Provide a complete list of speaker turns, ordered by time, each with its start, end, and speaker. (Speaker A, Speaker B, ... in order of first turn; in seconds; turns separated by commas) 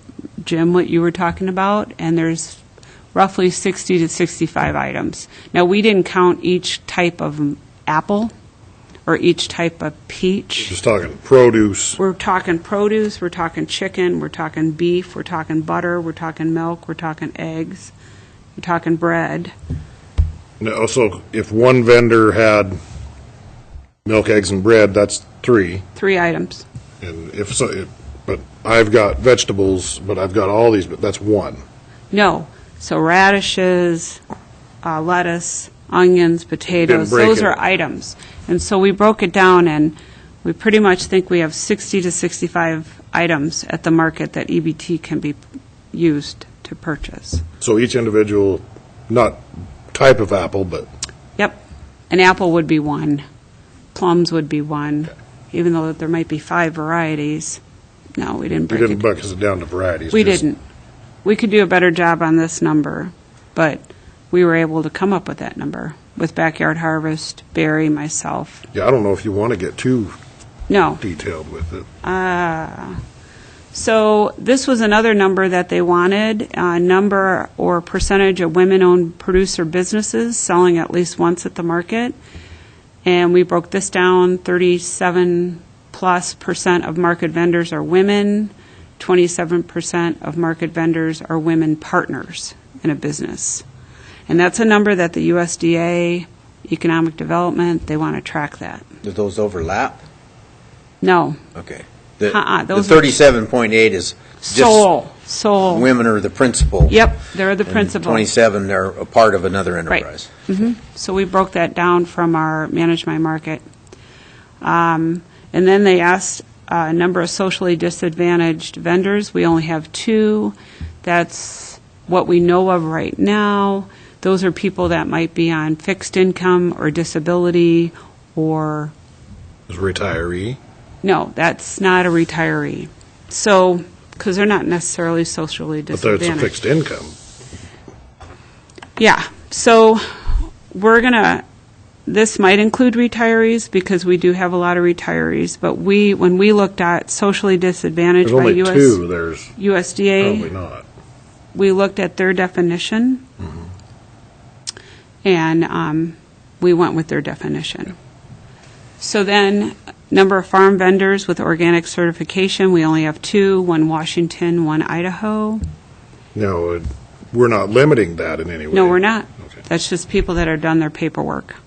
Speaker A: 0.4-2.6, Speaker A: 3.1-8.3, Speaker A: 9.1-10.7, Speaker B: 10.7-12.0, Speaker A: 12.0-17.9, Speaker A: 18.6-19.5, Speaker B: 20.6-22.8, Speaker B: 24.0-25.8, Speaker A: 25.9-26.6, Speaker B: 27.0-31.6, Speaker A: 32.1-34.2, Speaker A: 34.8-45.4, Speaker B: 36.8-37.6, Speaker A: 45.9-47.4, Speaker B: 47.6-50.9, Speaker A: 51.4-53.2, Speaker A: 53.9-57.6, Speaker A: 58.2-59.0, Speaker B: 58.7-60.4, Speaker A: 60.1-60.6, Speaker A: 61.2-68.7, Speaker B: 68.7-70.2, Speaker A: 70.7-71.0, Speaker B: 71.0-71.9, Speaker A: 72.0-73.0, Speaker A: 73.7-82.2, Speaker A: 83.0-93.6, Speaker A: 94.3-98.8, Speaker C: 99.0-100.0, Speaker A: 101.0-101.4, Speaker C: 101.5-104.9, Speaker A: 102.2-103.2, Speaker A: 104.4-105.9, Speaker C: 105.7-107.0, Speaker A: 106.9-108.3, Speaker C: 107.7-110.3, Speaker A: 109.9-113.6, Speaker A: 114.6-128.9, Speaker B: 129.7-130.6, Speaker A: 131.0-136.5, Speaker B: 135.9-137.1, Speaker A: 139.0-141.4, Speaker A: 142.1-149.0, Speaker B: 148.2-149.5, Speaker A: 149.6-150.5, Speaker B: 150.2-150.8, Speaker A: 151.5-153.2, Speaker A: 155.2-157.9, Speaker A: 159.0-165.6, Speaker B: 166.3-169.0, Speaker A: 168.7-171.6